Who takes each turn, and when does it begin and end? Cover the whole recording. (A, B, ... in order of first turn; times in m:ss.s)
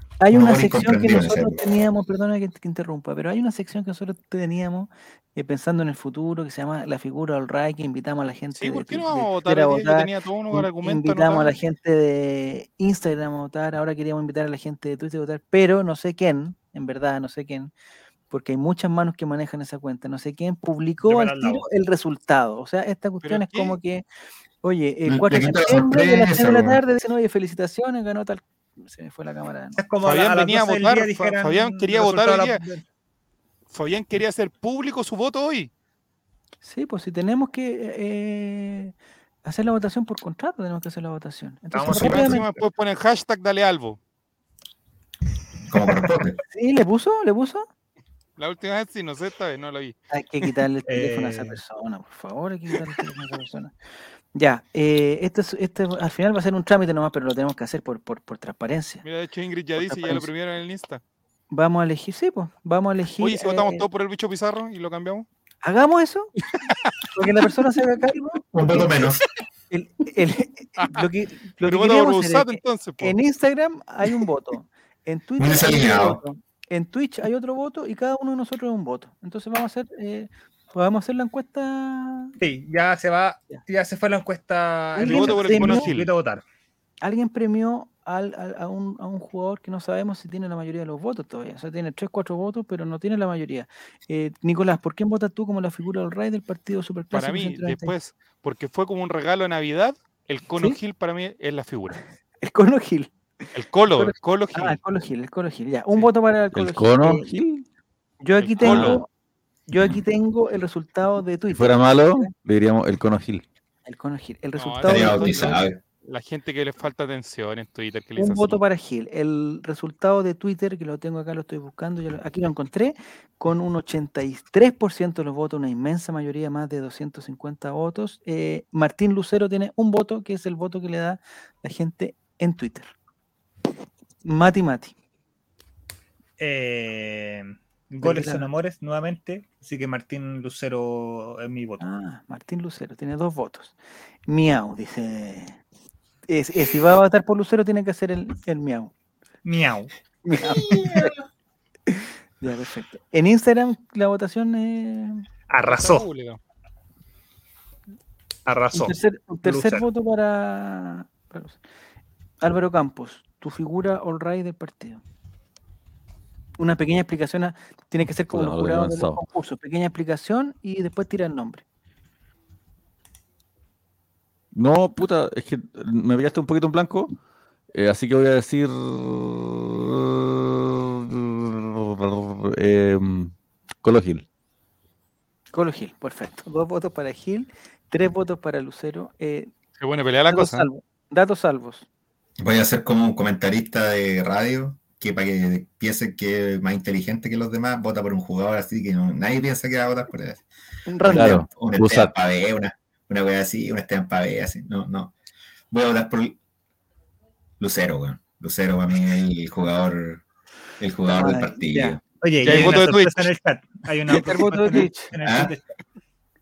0:00.2-0:17.7 A
0:00.3-0:01.6 B
0:08.6-0:11.5 C
0:18.3-0:24.0 A
0:21.0-0:21.7 D
0:23.2-0:23.8 C
0:24.6-0:29.8 A
0:25.1-0:26.8 B
0:29.8-0:32.8 D
0:30.0-0:32.6 C
0:33.7-0:35.7 C
0:36.6-0:38.9 A
0:39.4-0:42.4 A
0:41.7-0:42.6 D
0:41.9-0:44.0 C
0:42.0-0:42.4 B
0:45.7-0:46.4 B
0:46.5-0:47.6 A
0:48.4-0:50.0 C
0:50.1-0:53.8 A
0:50.9-0:51.6 D
0:54.3-0:59.0 A
0:59.0-1:01.0 C
0:59.8-1:00.3 A
1:01.5-1:03.9 A
1:03.2-1:05.3 C
1:05.6-1:06.3 A
1:07.2-1:09.1 A
1:08.5-1:09.2 B
1:09.7-1:22.4 A
1:10.8-1:11.1 C
1:11.6-1:13.2 C
1:15.4-1:16.2 B
1:22.4-1:26.4 D
1:25.0-1:25.9 A
1:25.0-1:26.1 C
1:27.0-1:37.9 A
1:37.1-1:42.0 C
1:42.4-1:43.1 A
1:43.6-1:44.8 C
1:43.9-1:47.3 A
1:46.6-1:47.6 E
1:48.2-1:49.1 A
1:48.4-1:49.0 C
1:48.6-1:48.9 B
1:49.7-1:52.3 A
1:51.5-1:53.4 E
1:53.9-1:55.6 A
1:54.6-1:58.6 C
1:54.9-1:55.8 B
1:58.2-2:12.9 A
2:14.2-2:14.9 A
2:16.4-2:21.8 D
2:18.0-2:18.5 A
2:21.8-2:23.8 A
2:24.3-2:25.6 A
2:26.3-2:28.9 A
2:29.4-2:29.9 D
2:30.2-2:31.1 A
2:30.5-2:31.2 B
2:31.9-2:35.2 A
2:35.5-2:36.1 D
2:35.6-2:36.4 C
2:38.5-2:39.8 D
2:38.7-2:41.6 A
2:42.4-2:45.0 A
2:46.6-2:51.6 A
2:48.3-2:49.2 E
2:54.5-2:57.2 E
2:57.7-3:04.3 E
3:05.5-3:09.5 A
3:09.8-3:10.7 C
3:10.3-3:11.9 A
3:12.4-3:20.4 B
3:20.9-3:21.4 A
3:21.0-3:25.1 B
3:21.1-3:22.1 E
3:25.7-3:26.4 B
3:27.6-3:30.2 B
3:30.8-3:32.0 B
3:31.1-3:32.0 A
3:32.2-3:35.6 D
3:32.4-3:33.3 C
3:34.1-3:35.1 A
3:35.2-3:35.5 B